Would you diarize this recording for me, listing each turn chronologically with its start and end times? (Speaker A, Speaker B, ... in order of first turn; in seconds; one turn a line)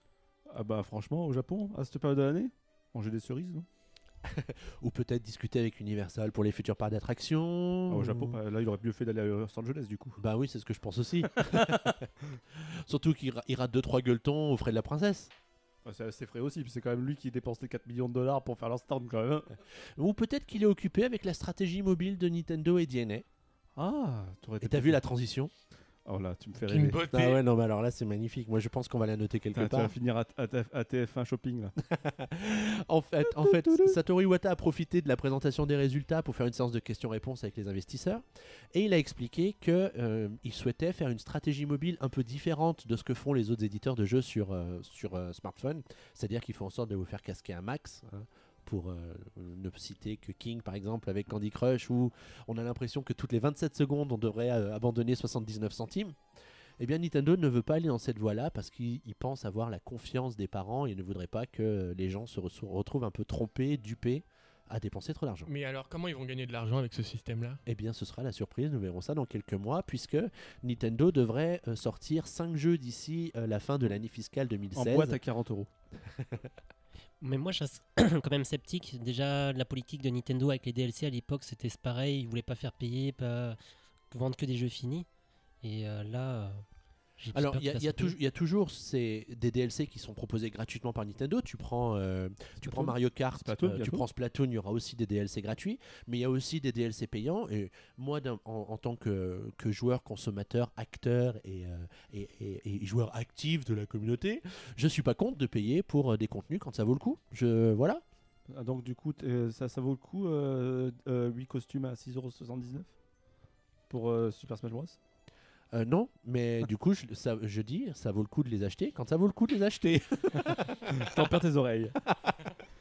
Speaker A: 0.5-3.6
Speaker B: 4.2-8.4
Speaker A: 7.9-10.2
Speaker B: 10.2-12.1
Speaker A: 11.4-12.0
Speaker B: 12.8-15.3
Speaker A: 15.8-19.5
Speaker B: 20.0-23.2
Speaker A: 23.8-25.0
Speaker B: 24.6-25.5
Speaker A: 26.0-27.0
Speaker C: 26.7-27.4
Speaker B: 27.1-29.9
Speaker A: 29.5-31.7
Speaker B: 31.9-56.2
Speaker A: 33.3-34.0
Speaker B: 56.8-65.5
Speaker C: 65.5-67.6
Speaker B: 67.7-75.2
Speaker A: 74.7-75.7
Speaker B: 76.1-76.4
Speaker D: 77.2-83.6
Speaker D: 84.1-85.1
Speaker D: 85.6-86.6
Speaker D: 87.2-88.2
Speaker B: 87.3-108.0
Speaker A: 92.6-94.0
Speaker A: 108.5-112.9
Speaker A: 113.9-115.0
Speaker B: 115.7-121.0
Speaker A: 120.9-122.0